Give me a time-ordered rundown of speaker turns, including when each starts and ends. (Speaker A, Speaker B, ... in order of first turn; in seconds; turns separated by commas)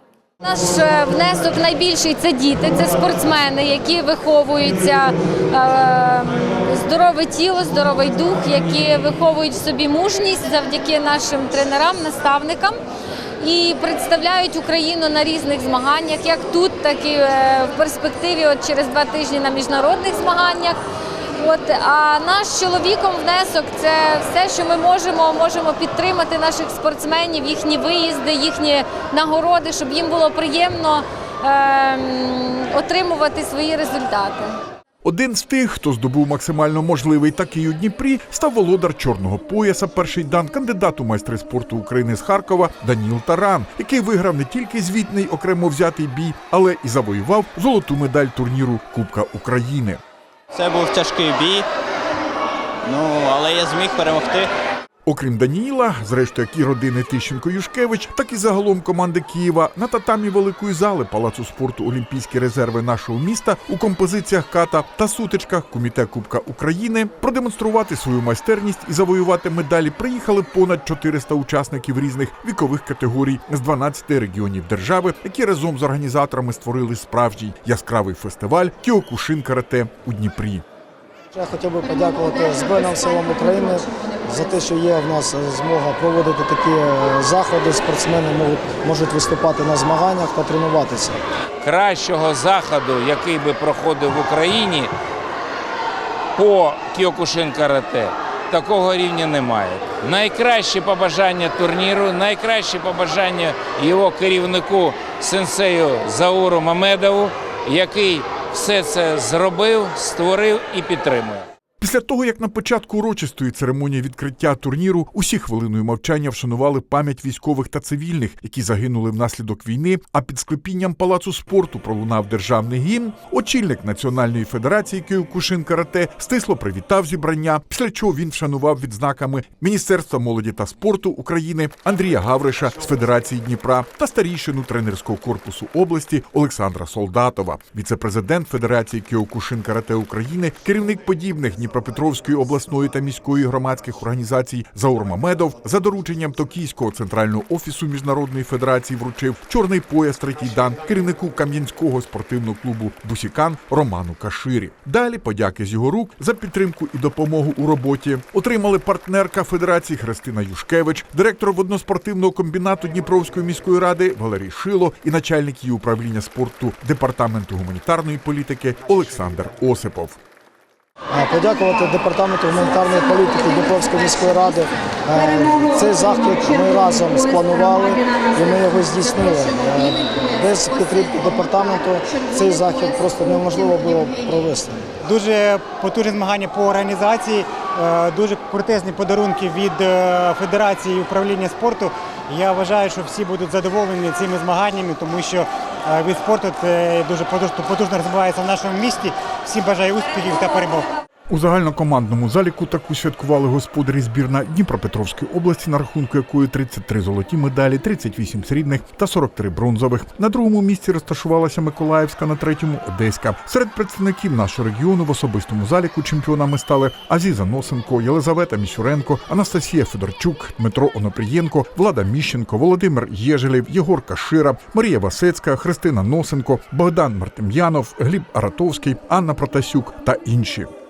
Speaker A: 0.4-12.8, Speaker A: 13.4-20.8, Speaker A: 21.4-34.5, Speaker B: 35.0-50.0, Speaker C: 50.5-51.6, Speaker C: 52.9-54.5, Speaker B: 55.1-80.6, Speaker D: 81.3-91.2, Speaker E: 91.6-94.9, Speaker E: 96.3-111.5, Speaker B: 111.8-170.2, Speaker D: 171.1-184.9, Speaker F: 185.0-200.9, Speaker B: 201.3-230.7